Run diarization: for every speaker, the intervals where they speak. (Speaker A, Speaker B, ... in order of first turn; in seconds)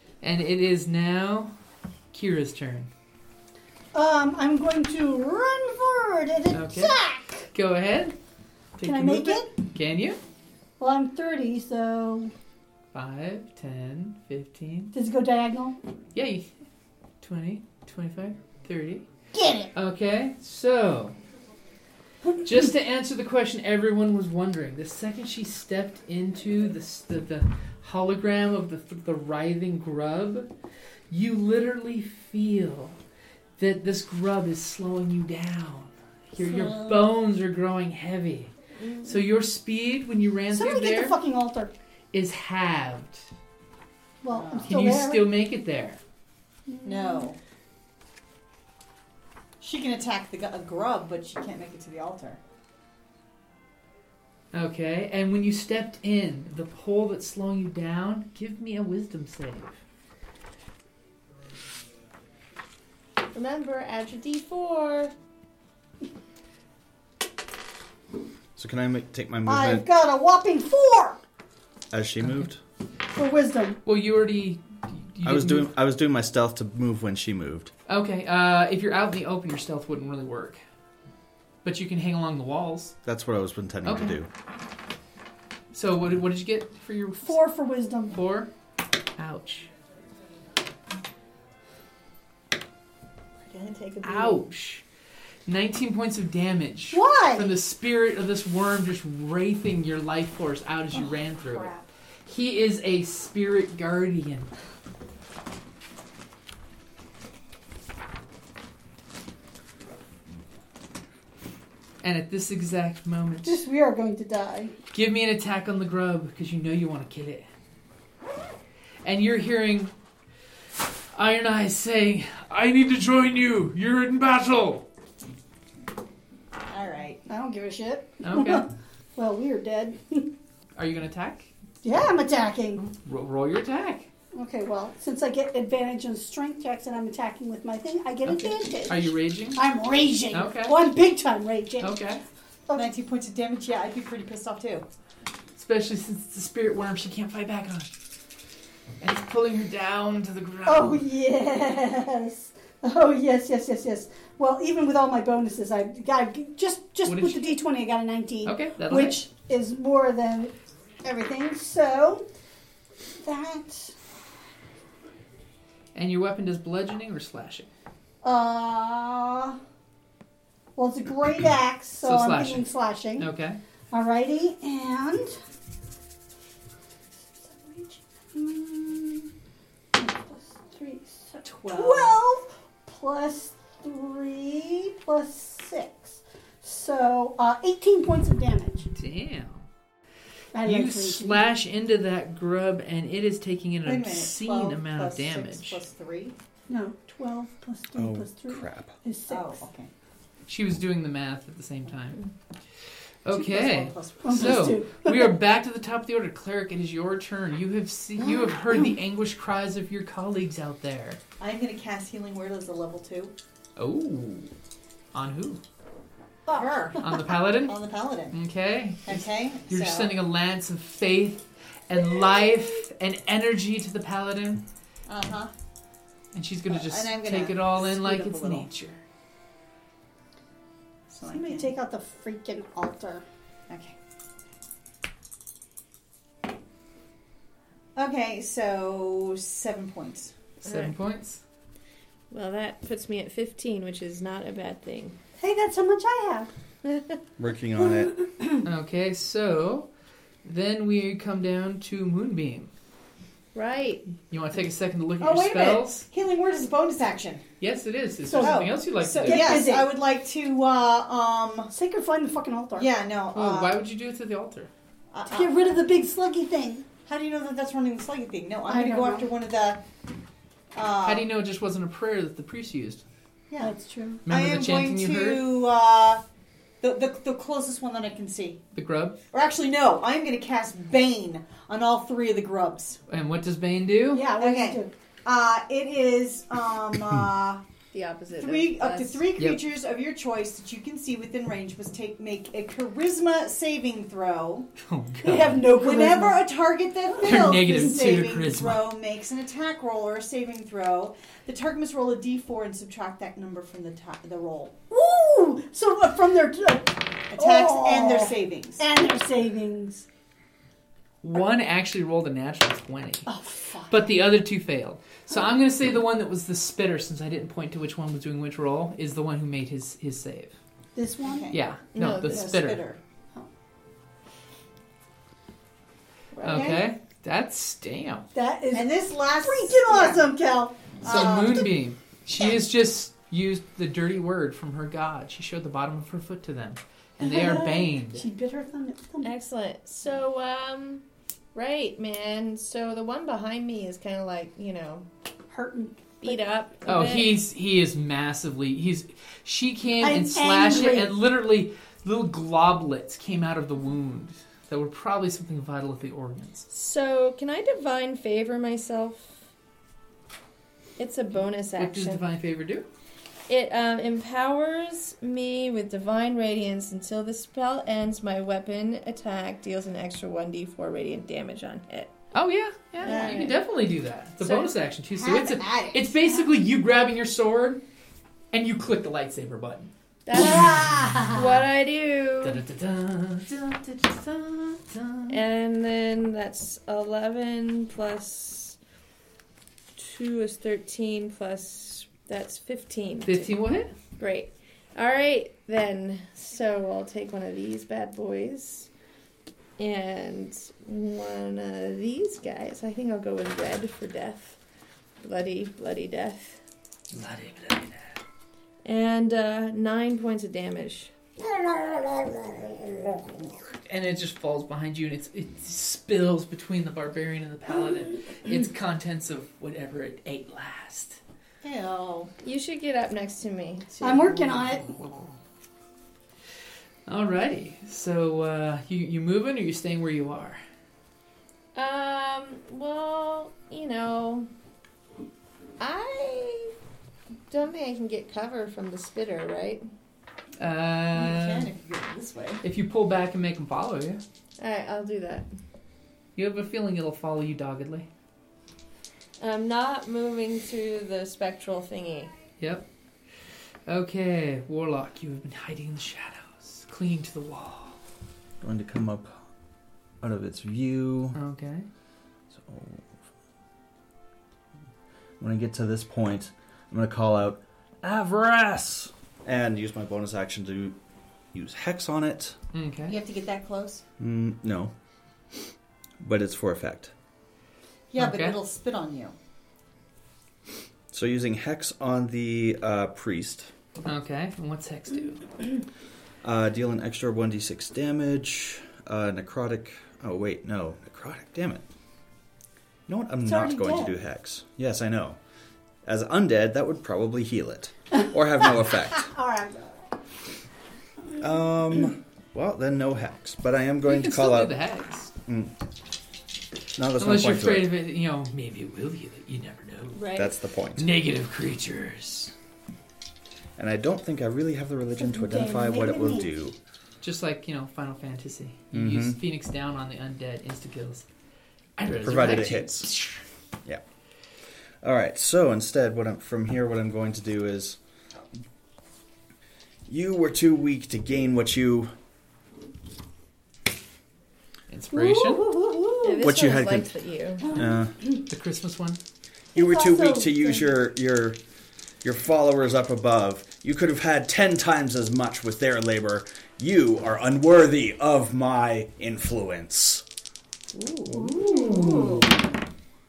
Speaker A: 0.2-1.5, 2.1-2.9, 6.5-7.0, 7.5-8.2, 8.8-10.2, 12.9-14.9, 16.1-16.5, 17.2-19.1, 19.7-21.2, 22.4-30.5, 31.1-33.0, 33.6-38.5, 39.0-41.2, 42.1-43.3, 44.6-46.0, 54.5-59.8, 72.2-72.5, 73.8-75.7, 77.9-80.6, 81.6-83.0, 83.8-84.2, 85.7-87.5, 88.1-88.5, 89.2-89.7, 94.0-94.8, 95.5-104.5, 112.0-113.6, 114.9-117.5, 119.0-119.9, 121.1-124.8, 128.2-128.7, 130.8-131.5, 132.8-134.1, 138.2-139.7, 140.3-140.9, 141.8-142.2, 145.6-147.9, 149.0-151.0, 157.1-157.6, 158.4-159.2, 165.9-167.7, 172.0-173.6, 188.9-189.7, 190.6-195.8, 200.5-202.2, 203.2-211.2, 213.8-214.5, 215.1-215.6, 217.0-217.8, 218.3-224.6, 226.3-229.0, 240.6-241.4, 248.6-249.9, 250.4-252.7, 254.3-256.1, 257.6-259.6, 263.3-264.7, 271.0-273.0, 274.3-275.4, 278.7-279.2, 283.1-284.3, 289.4-289.6, 294.8-295.7, 297.2-298.9, 311.2-313.3, 313.9-320.6, 321.5-322.8, 326.4-328.3, 331.0-338.2, 346.9-356.7, 361.8-362.9, 372.3-377.8, 378.5-379.9, 382.4-385.4, 393.2-393.9, 407.1-408.2, 413.8-421.2, 427.1-430.6, 440.6-441.7, 442.6-444.2, 446.4-448.1, 452.6-452.9, 453.9-458.0, 461.3-461.9, 472.7-473.2, 478.1-478.6, 484.0-485.6, 504.0-505.3, 507.2-510.4, 510.9-512.5, 517.2-521.3, 522.0-523.4, 534.9-535.7, 538.5-539.2, 550.9-552.5
Speaker B: 3.9-7.5, 8.8-9.5, 10.8-12.3, 14.9-15.8, 19.3-19.7, 40.5-41.7, 44.2-45.3, 46.7-47.3, 69.5-71.2, 73.1-73.8, 87.2-88.2, 96.9-97.6, 101.5-101.8, 113.4-114.7, 127.3-130.3, 131.8-132.8, 134.3-142.0, 150.6-160.5, 161.0-162.3, 163.2-163.9, 168.2-169.6, 170.8-173.3, 173.9-175.3, 177.4-179.3, 179.9-188.9, 190.5-191.5, 196.7-199.6, 204.2-205.3, 216.5-217.0, 231.2-233.2, 245.4-246.5, 247.8-248.6, 258.2-260.0, 261.7-262.9, 265.3-266.9, 268.7-269.3, 273.6-274.2, 284.1-284.9, 295.2-296.4, 304.9-310.1, 313.2-314.1, 320.9-321.5, 328.3-331.4, 337.2-339.3, 345.5-346.4, 350.0-351.2, 381.0-381.3, 424.0-424.9, 493.4-494.1, 499.2-500.1, 515.2-516.5, 535.1-536.5, 537.7-538.4, 539.7-540.9, 551.3-552.4
Speaker C: 38.8-39.2, 63.3-65.1, 240.6-240.9, 242.3-245.2, 246.8-247.1, 253.5-254.1, 287.9-289.3, 321.9-322.4, 326.3-326.8, 339.2-341.0, 341.5-345.1, 346.2-347.4, 356.7-359.4, 361.0-362.2, 363.5-372.1, 373.0-373.6, 380.2-382.6, 385.3-388.8, 389.9-393.5, 394.2-398.9, 399.8-404.6, 405.2-406.6, 408.8-411.1, 422.4-424.6, 431.7-434.5, 435.8-436.7, 437.5-439.8, 444.6-445.5, 449.4-452.3, 510.1-510.5, 536.2-537.7
Speaker D: 44.3-44.8, 46.8-47.4, 49.6-52.4, 93.5-94.4, 126.7-127.2, 142.7-144.8, 181.4-182.2, 193.8-196.3, 199.3-199.9, 203.3-204.7, 211.4-213.3, 216.5-218.3, 219.1-220.2, 225.1-225.5, 226.7-228.7, 231.1-231.7, 233.7-233.9, 237.9-240.3, 255.2-257.4, 258.4-261.7, 262.7-263.8, 265.1-265.7, 267.0-269.8, 270.7-271.3, 273.5-273.8, 274.3-276.2, 276.8-278.6, 279.3-283.0, 284.4-287.6, 288.4-294.7, 295.7-304.8, 307.3-308.8, 321.2-323.0, 326.4-326.8, 328.7-330.4, 331.0-331.7, 373.0-373.4, 374.4-376.3, 411.4-413.4, 421.6-422.3, 441.1-442.6, 473.1-474.0, 478.1-479.3, 551.6-552.5
Speaker E: 68.5-69.9, 71.9-72.6, 75.2-77.7, 83.0-84.3, 197.9-198.9, 247.4-248.1, 458.6-459.4, 460.2-461.4, 462.5-463.1, 465.4-471.0, 471.5-472.6, 474.2-474.9, 476.2-477.1, 481.1-483.7, 486.4-491.8, 493.1-495.4, 496.0-499.3, 501.4-504.8, 505.5-505.7, 506.9-507.9, 510.3-511.1, 513.8-516.8, 518.9-519.4, 522.2-523.1, 525.0-528.0, 530.1-532.1, 536.4-537.1, 537.7-538.1, 539.7-541.6, 542.2-550.2